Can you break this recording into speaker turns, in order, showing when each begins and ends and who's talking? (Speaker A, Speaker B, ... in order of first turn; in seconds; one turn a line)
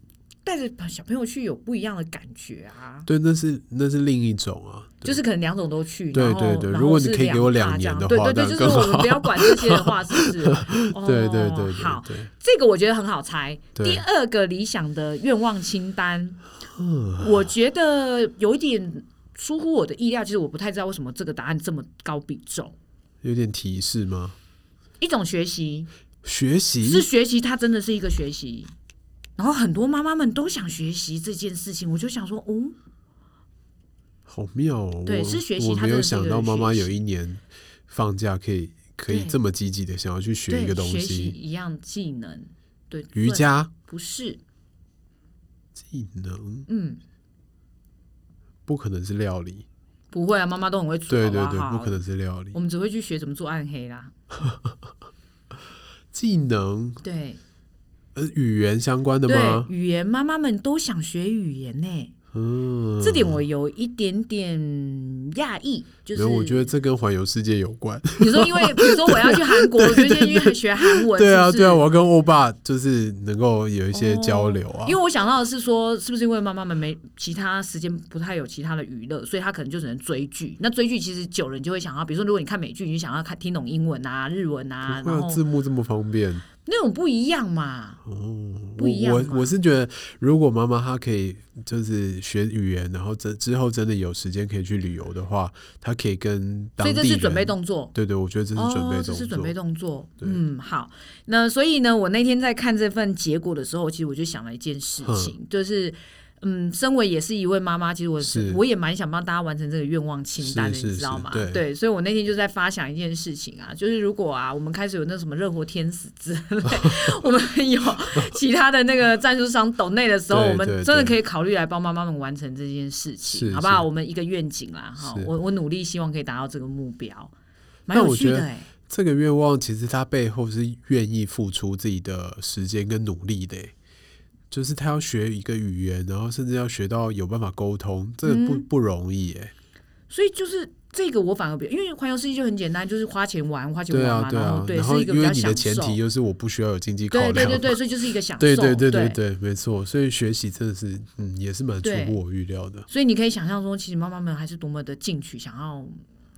Speaker A: 0.5-3.1
Speaker B: 3.1-5.2
Speaker A: 5.0-16.4
Speaker B: 6.1-12.3
Speaker B: 13.8-14.0
Speaker B: 16.7-17.5
Speaker A: 17.2-22.8
Speaker B: 23.2-24.4
Speaker A: 25.0-25.9
Speaker B: 26.2-27.1
Speaker A: 26.8-28.7
Speaker A: 29.4-32.8
Speaker B: 34.3-41.4
Speaker A: 35.0-37.0
Speaker A: 39.1-39.4
Speaker A: 40.5-44.4
Speaker B: 43.1-43.7
Speaker B: 45.8-46.7
Speaker A: 46.7-47.0
Speaker B: 48.7-49.6
Speaker A: 50.1-52.0
Speaker B: 51.1-52.6
Speaker A: 52.5-54.1
Speaker B: 56.1-57.0
Speaker A: 57.0-57.4
Speaker B: 58.1-59.7
Speaker A: 59.2-62.1
Speaker B: 62.3-63.4
Speaker A: 63.0-66.7
Speaker B: 66.1-75.0
Speaker A: 68.2-71.8
Speaker A: 73.9-85.4
Speaker B: 84.8-86.5
Speaker A: 86.6-88.0
Speaker B: 88.1-99.5
Speaker A: 88.8-89.5
Speaker A: 96.8-97.9
Speaker A: 98.5-127.3
Speaker B: 105.0-105.3
Speaker B: 108.2-108.6
Speaker B: 110.4-111.6
Speaker B: 120.3-121.2
Speaker B: 123.3-123.9
Speaker B: 125.0-125.3
Speaker A: 127.9-128.7
Speaker B: 127.9-133.7
Speaker B: 134.5-139.5
Speaker A: 138.2-138.7
Speaker A: 140.1-146.0
Speaker B: 143.9-147.8
Speaker A: 147.1-149.2
Speaker B: 148.4-152.9
Speaker A: 151.8-152.2
Speaker A: 152.9-156.0